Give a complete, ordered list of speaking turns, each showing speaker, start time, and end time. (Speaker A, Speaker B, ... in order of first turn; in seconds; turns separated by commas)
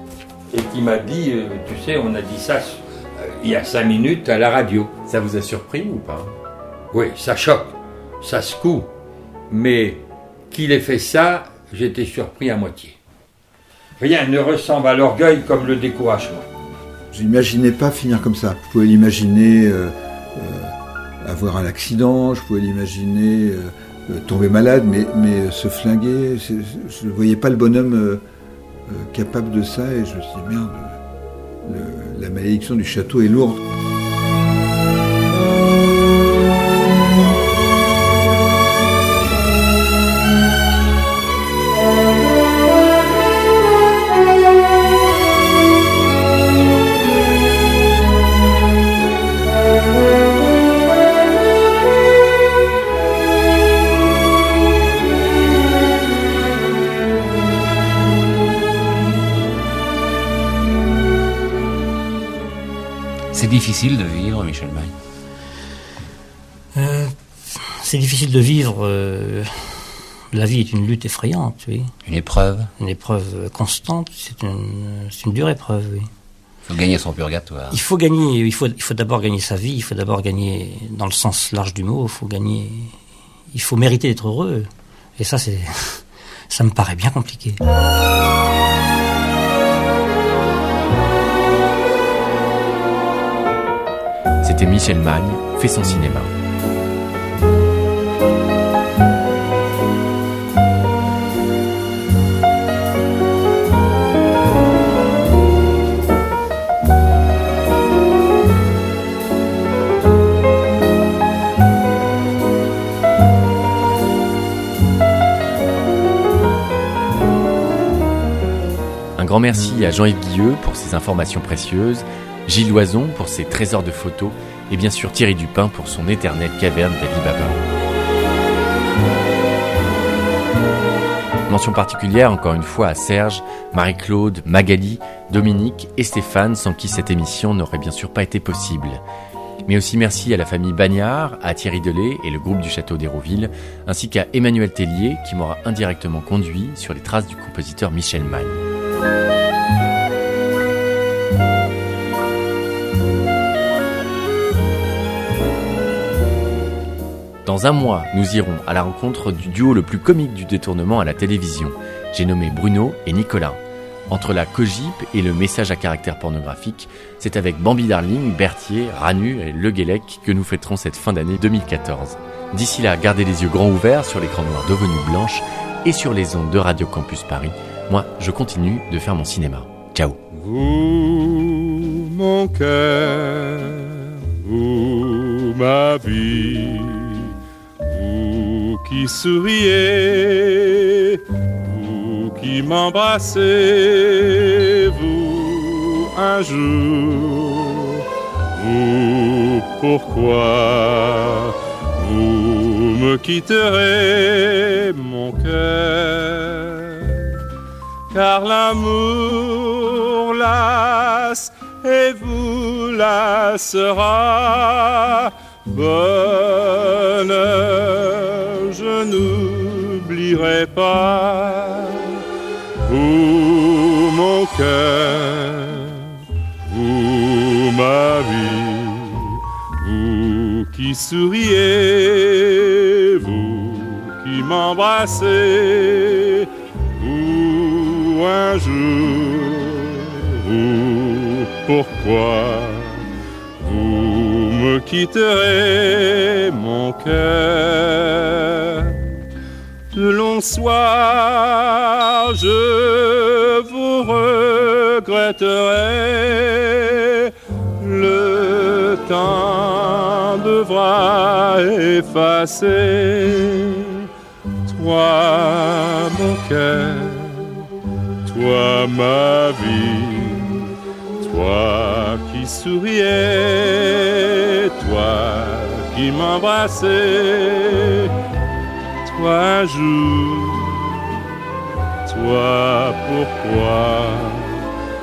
Speaker A: 0.5-4.9, Speaker B: 5.0-6.3, Speaker A: 6.9-8.9, Speaker A: 9.5-13.0, Speaker A: 14.0-16.4, Speaker C: 17.1-28.2, Speaker C: 28.9-31.0, Speaker C: 31.6-33.6, Speaker D: 63.3-64.9, Speaker E: 66.7-71.9, Speaker D: 72.0-72.7, Speaker E: 72.8-76.1, Speaker D: 76.7-77.8, Speaker E: 77.7-83.0, Speaker E: 83.5-87.6, Speaker B: 94.4-96.3, Speaker B: 119.2-127.6, Speaker B: 131.5-139.0, Speaker B: 139.6-148.6, Speaker B: 157.4-180.2, Speaker F: 180.3-187.3, Speaker F: 187.8-198.0, Speaker F: 198.5-207.2, Speaker F: 208.1-222.2, Speaker F: 222.8-243.0, Speaker F: 243.6-249.0, Speaker F: 249.9-264.1, Speaker F: 264.7-267.6, Speaker F: 268.2-270.7, Speaker F: 271.2-278.1, Speaker F: 279.1-281.0, Speaker F: 282.1-284.7